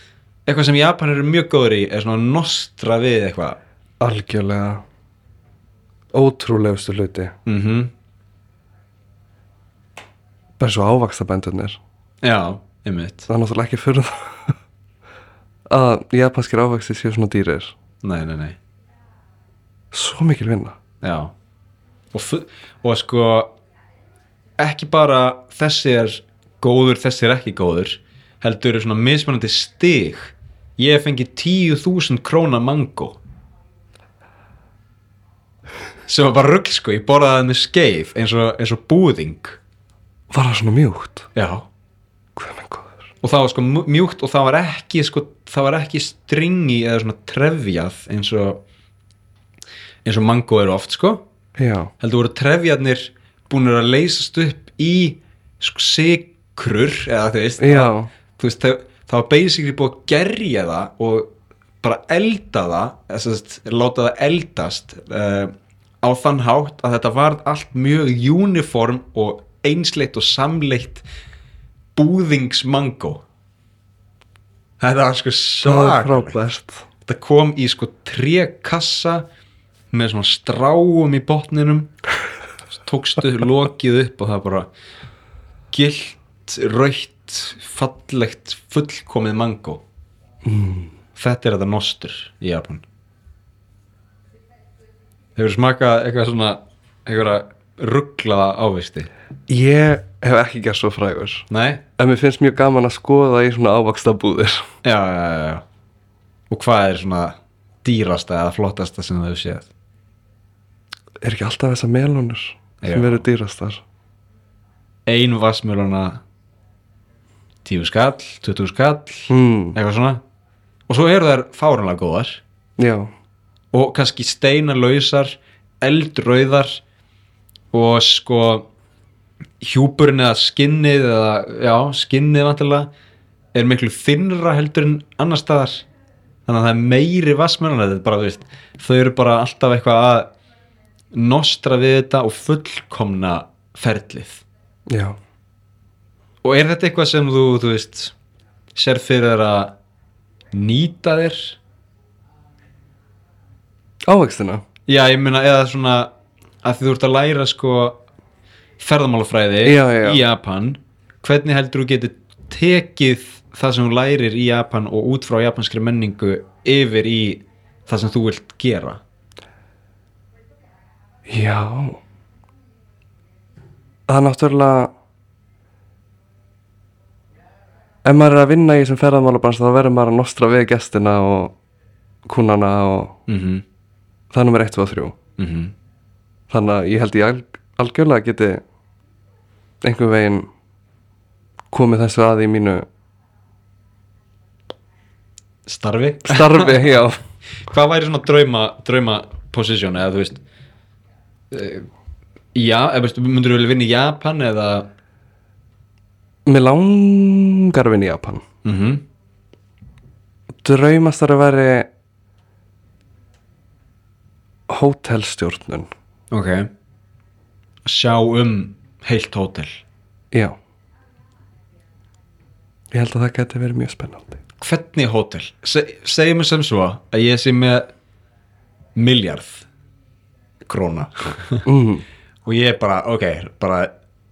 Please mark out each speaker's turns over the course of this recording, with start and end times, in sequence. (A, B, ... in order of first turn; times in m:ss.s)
0:00.5-0:03.6 A
0:04.0-0:04.8 B
0:06.1-0:07.4 B
0:07.5-0:07.9 A
0:10.6-0:11.8 B
0:12.2-0:13.3 A
0:13.3-0:14.5 B
0:15.7-0:17.8 B
0:18.0-0:18.6 A
0:19.9-0:20.8 B
0:21.0-0:21.3 A
0:22.1-0:23.5 A
0:24.6-0:33.2 A
0:36.1-0:39.6 A
0:40.3-0:41.3 B
0:41.4-0:41.7 A
0:42.4-0:43.1 B
0:43.2-0:48.6 A
0:50.0-0:51.2 A
0:51.6-0:51.9 B
0:52.0-1:11.0 A
0:57.6-0:58.1 B
1:12.0-1:13.2 A
1:14.8-1:16.4 A
1:15.6-1:16.8 B
1:17.1-1:19.3 A
1:19.9-1:21.9 A
1:22.8-1:24.7 A
1:25.7-1:29.8 A
1:30.4-1:30.9 B
1:31.2-1:32.8 A
1:35.4-1:39.1 A
1:39.5-1:44.7 B
1:41.5-1:41.8 A
1:44.8-1:45.6 A
1:46.5-1:49.7 A
1:51.2-1:53.8 B
1:52.8-1:53.2 A
1:55.1-1:56.2 A
1:57.6-2:00.2 A
1:59.3-1:59.8 B
2:00.9-2:02.4 A
2:02.8-2:03.1 B
2:03.7-2:06.8 A
2:07.7-2:08.7 A
2:09.6-2:12.9 A
2:13.5-2:15.8 A
2:16.5-2:20.3 A
2:21.1-2:24.4 A
2:24.9-2:25.2 B
2:26.4-2:28.1 A
2:28.8-2:29.8 A
2:30.5-2:31.6 A
2:34.1-2:34.6 B
2:34.9-2:36.1 A
2:36.6-2:38.0 A
2:38.8-2:49.0 A
2:39.6-2:40.2 B
2:51.3-2:52.0 B
2:54.1-2:54.9 B
2:58.0-3:01.6 B
3:02.3-3:03.2 B
3:03.3-3:03.6 A
3:04.3-3:05.2 B
3:05.4-3:05.7 A
3:06.5-3:08.6 B
3:09.8-3:10.5 B
3:11.7-3:12.9 B
3:15.7-3:16.9 A
3:16.3-3:17.2 B
3:17.7-3:20.4 A
3:21.5-3:21.9 A
3:22.5-3:24.9 A
3:26.5-3:28.4 B
3:28.6-3:29.0 A
3:30.6-3:31.9 B
3:34.7-3:35.9 B
3:36.3-3:36.7 A
3:37.8-3:39.8 A
3:40.3-3:40.6 B
3:42.9-3:44.4 B
3:44.6-3:47.9 A
3:49.0-3:49.7 A
3:50.7-3:51.6 A
3:51.6-3:52.0 B
3:52.4-3:53.9 A